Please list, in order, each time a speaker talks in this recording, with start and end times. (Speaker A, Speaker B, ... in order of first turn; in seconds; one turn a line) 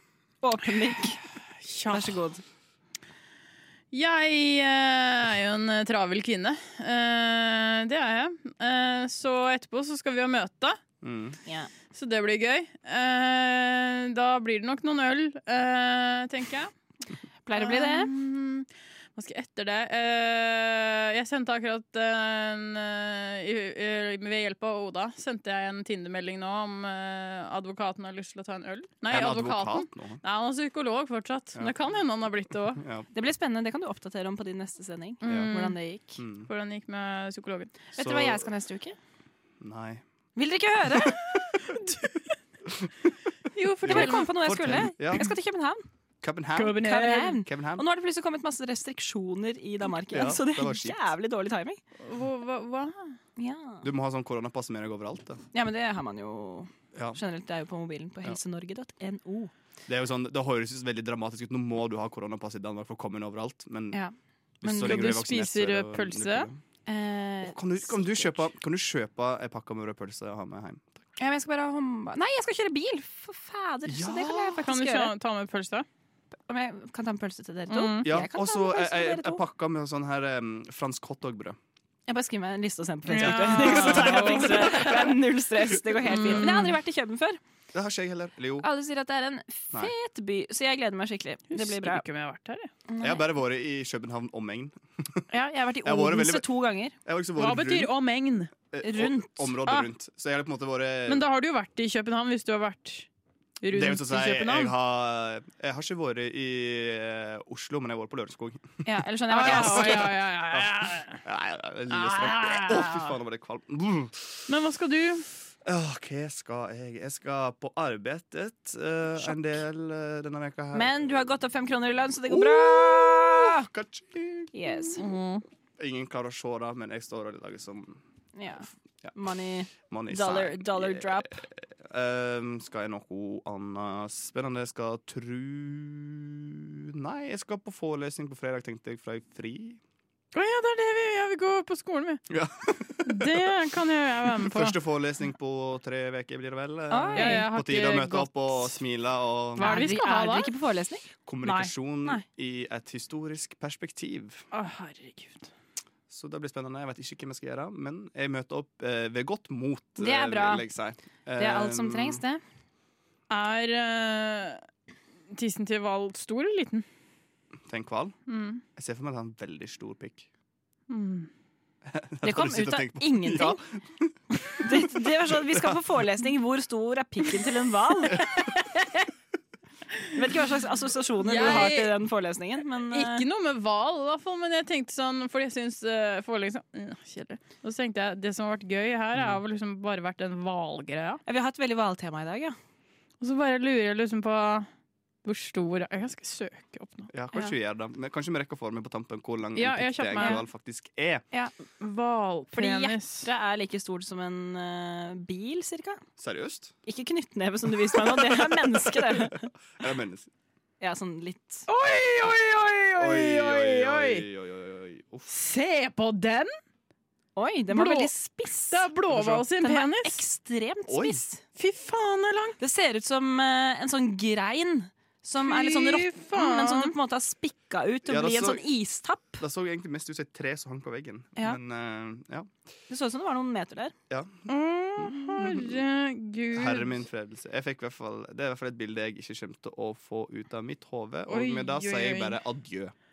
Speaker A: 0.4-1.2
Speaker B: 1.6-2.2
Speaker A: 1.9-2.4
Speaker B: 3.9-10.8
Speaker C: 11.0-11.4
Speaker B: 11.9-16.7
Speaker A: 17.4-18.1
Speaker B: 17.6-32.8
Speaker C: 29.1-30.2
Speaker C: 31.5-33.1
Speaker A: 33.1-36.2
Speaker B: 35.2-35.8
Speaker C: 35.2-35.5
Speaker C: 36.2-36.5
Speaker B: 36.4-37.7
Speaker A: 37.9-39.0
Speaker C: 38.0-38.5
Speaker C: 39.6-40.0
Speaker A: 40.4-41.2
Speaker B: 41.6-42.2
Speaker B: 43.5-44.4
Speaker C: 43.8-45.3
Speaker A: 43.9-45.8
Speaker C: 46.2-47.8
Speaker B: 46.6-47.4
Speaker A: 46.6-51.8
Speaker C: 50.1-51.1
Speaker B: 52.0-53.1
Speaker A: 53.4-53.9
Speaker C: 53.8-55.4
Speaker A: 55.5-59.5
Speaker C: 59.9-64.0
Speaker C: 64.6-66.6
Speaker B: 64.6-66.5
Speaker A: 64.7-65.0
Speaker A: 66.8-68.5
Speaker C: 67.4-71.0
Speaker A: 71.2-75.1
Speaker C: 73.9-74.5
Speaker B: 74.5-75.8
Speaker A: 76.5-79.4
Speaker B: 77.7-78.1
Speaker C: 78.0-81.6
Speaker A: 82.1-87.4
Speaker B: 83.1-85.1
Speaker C: 83.1-85.2
Speaker B: 86.1-86.8
Speaker C: 86.2-86.5
Speaker C: 87.7-88.7
Speaker A: 88.6-92.0
Speaker B: 91.5-92.7
Speaker A: 92.9-93.2
Speaker C: 93.0-95.2
Speaker A: 95.3-97.0
Speaker C: 95.8-96.5
Speaker C: 97.0-97.9
Speaker B: 97.4-98.5
Speaker C: 98.7-101.3
Speaker A: 98.8-99.5
Speaker B: 101.1-103.1
Speaker B: 103.6-104.7
Speaker C: 103.7-108.7
Speaker A: 108.8-110.2
Speaker B: 109.3-111.2
Speaker C: 109.4-114.4
Speaker B: 111.9-112.9
Speaker B: 114.5-115.3
Speaker C: 115.6-121.3
Speaker A: 120.7-123.7
Speaker C: 122.3-125.0
Speaker A: 124.5-125.0
Speaker B: 125.0-125.4
Speaker C: 125.8-128.0
Speaker A: 128.3-131.4
Speaker C: 129.8-139.8
Speaker B: 140.3-142.2
Speaker C: 142.3-143.5
Speaker B: 143.0-144.8
Speaker C: 144.4-149.7
Speaker A: 146.9-147.4
Speaker B: 147.1-148.8
Speaker B: 149.6-150.5
Speaker A: 149.6-152.2
Speaker C: 151.2-154.4
Speaker B: 154.5-155.5
Speaker C: 156.1-162.2
Speaker A: 160.0-160.7
Speaker A: 161.4-162.4
Speaker B: 163.3-164.6
Speaker B: 165.3-166.8
Speaker C: 167.7-168.2
Speaker B: 168.3-168.6
Speaker C: 168.7-170.3
Speaker B: 170.9-171.3
Speaker C: 171.8-175.8
Speaker A: 172.2-173.6
Speaker A: 174.6-178.2
Speaker C: 178.1-178.5
Speaker A: 180.1-183.2
Speaker B: 181.2-181.9
Speaker B: 182.9-191.2
Speaker A: 191.2-192.6
Speaker B: 193.2-194.7
Speaker B: 195.2-197.1
Speaker C: 197.1-201.2
Speaker B: 199.6-200.4
Speaker B: 201.8-203.3
Speaker A: 202.5-206.0
Speaker C: 206.2-206.7
Speaker A: 206.8-209.5
Speaker C: 208.1-208.6
Speaker C: 209.8-210.3
Speaker A: 210.8-211.7
Speaker B: 211.7-214.2
Speaker C: 212.9-215.3
Speaker B: 215.3-216.5
Speaker A: 217.3-218.9
Speaker B: 217.7-218.1
Speaker B: 218.7-220.2
Speaker C: 219.1-219.4
Speaker A: 219.6-221.4
Speaker C: 220.9-221.2
Speaker B: 221.6-222.6
Speaker A: 222.6-229.4
Speaker B: 225.4-226.9
Speaker C: 228.0-228.6
Speaker C: 229.4-232.5
Speaker A: 232.9-233.9
Speaker C: 234.1-235.8
Speaker B: 234.5-237.0
Speaker C: 236.5-242.9
Speaker B: 241.3-242.4